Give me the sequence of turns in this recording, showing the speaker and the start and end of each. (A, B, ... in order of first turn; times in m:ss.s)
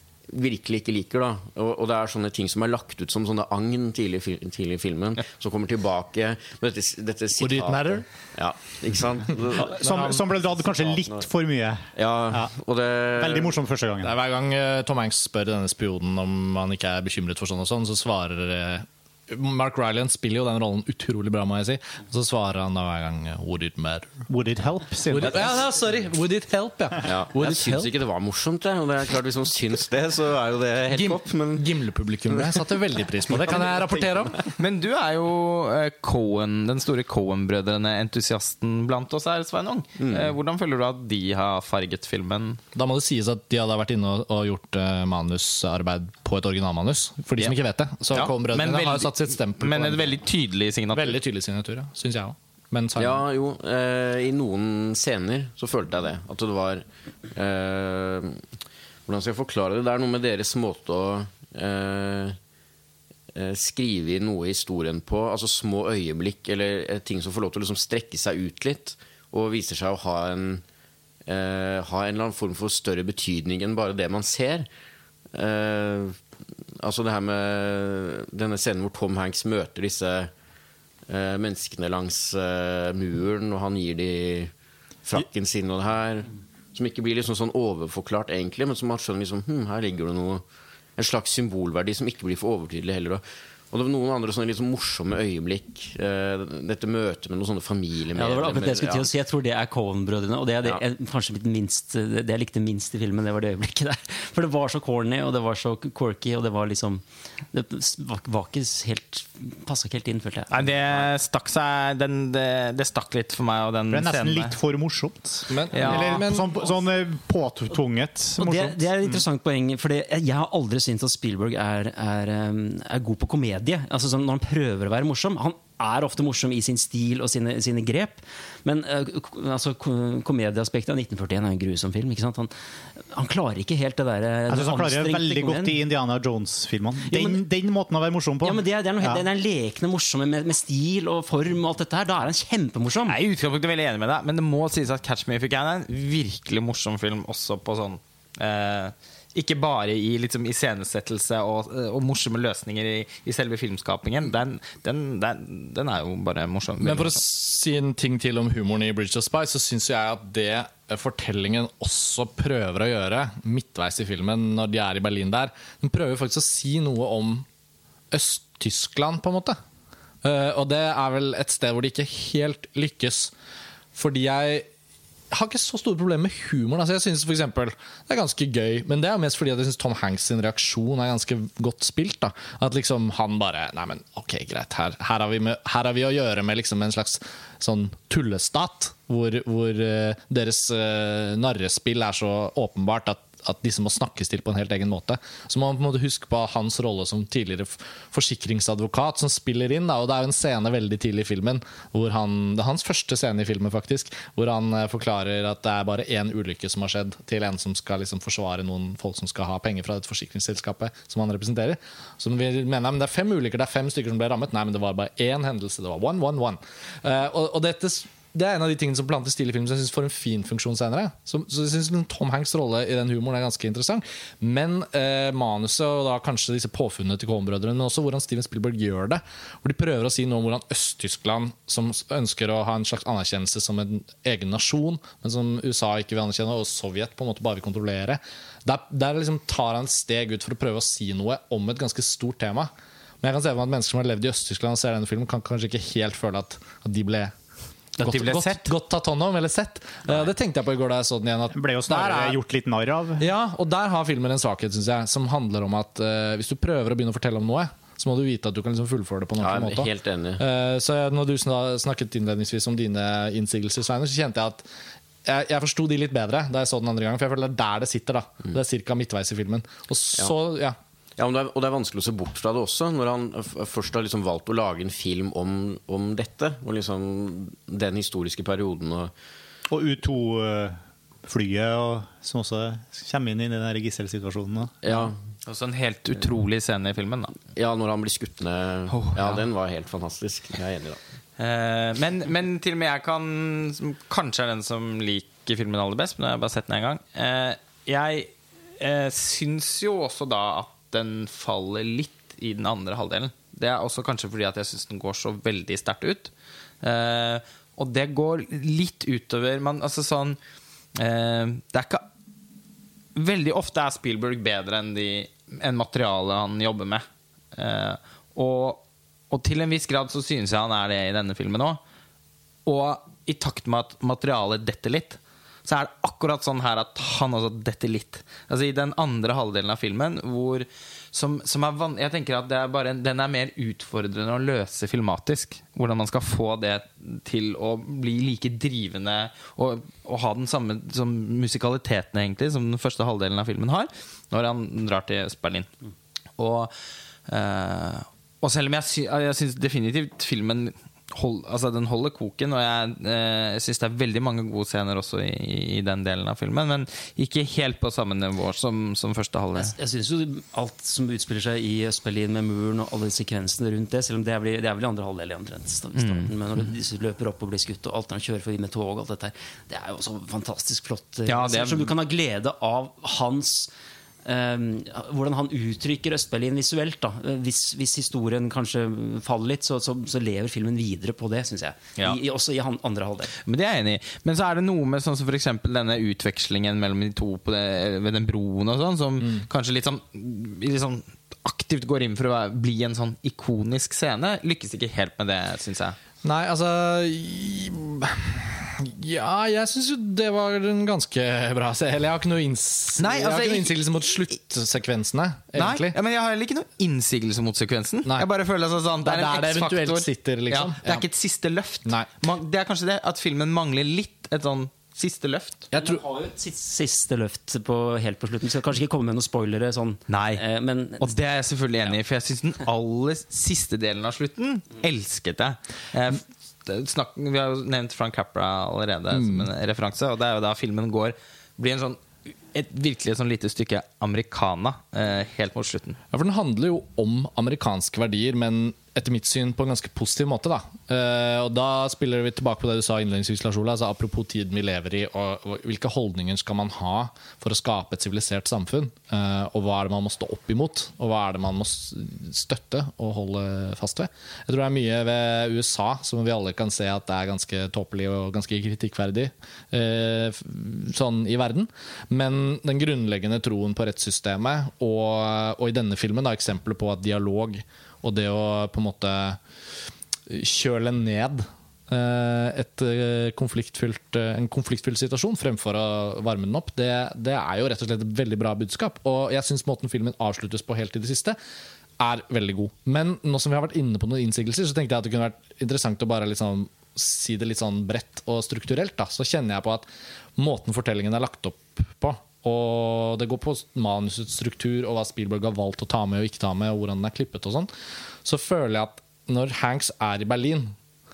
0:00.3-0:11.2 A
0:07.4-0:08.0 B
0:09.6-0:12.5 C
0:09.8-0:10.2 B
0:12.0-0:13.6 A
0:13.2-0:14.1 C
0:14.0-0:24.2 B
0:24.3-0:25.5 C
0:25.1-0:27.9 B
0:27.0-0:31.7 A
0:30.9-0:34.4 B
0:32.3-0:32.6 A
0:33.3-0:34.5 A
0:34.6-0:42.6 D
0:40.0-0:40.3 A
0:42.7-0:50.1 B
0:48.1-0:51.2 D
0:50.9-0:53.2 B
0:53.0-0:58.4 A
0:59.0-1:02.4 A
1:03.3-1:10.6 A
1:11.2-1:14.7 A
1:15.3-1:16.2 A
1:16.8-1:20.3 A
1:21.1-1:24.5 A
1:25.0-1:30.4 A
1:31.0-1:39.1 A
1:38.1-1:50.8 E
1:50.5-1:54.6 D
1:53.9-1:59.2 C
1:55.5-1:56.6 B
1:55.7-1:56.2 D
1:58.4-2:15.8 E
2:14.5-2:19.2 C
2:17.1-2:17.4 E
2:18.4-2:23.2 E
2:23.0-2:37.2 D
2:36.8-2:47.4 B
2:48.1-2:49.6 B
2:50.2-2:53.3 B
2:53.9-2:54.7 B
2:55.3-4:02.7 B
4:03.2-4:07.3 B
4:08.0-4:08.7 D
4:08.0-4:12.4 B
4:11.5-4:13.2 C
4:13.2-4:24.6 B
4:19.4-4:20.4 A
4:25.2-4:30.8 B
4:31.2-4:39.1 A
4:39.7-4:44.7 C
4:44.8-4:45.2 A
4:45.4-4:47.3 D
4:47.6-4:51.0 A
4:48.9-4:49.5 D
4:51.4-5:06.3 D
5:06.8-5:10.4 D
5:11.0-5:12.0 D
5:13.1-5:21.8 D
5:22.6-5:45.7 D
5:46.4-5:46.7 D
5:47.3-5:59.7 D
5:59.6-6:13.7 E
6:06.0-6:06.3 D
6:11.3-6:11.9 D
6:14.2-6:23.3 E
6:23.3-6:36.0 D
6:36.2-6:46.0 B
6:43.0-6:43.8 D
6:45.5-6:55.7 D
6:49.0-6:51.0 B
6:55.7-6:56.0 B
6:55.7-7:01.1 E
7:00.1-7:00.4 D
7:01.0-7:12.0 D
7:09.1-7:09.4 B
7:12.5-7:16.0 D
7:16.1-7:49.4 B
7:50.3-8:01.4 B
8:02.0-8:09.8 B
8:10.4-8:17.7 B
8:18.2-8:20.8 B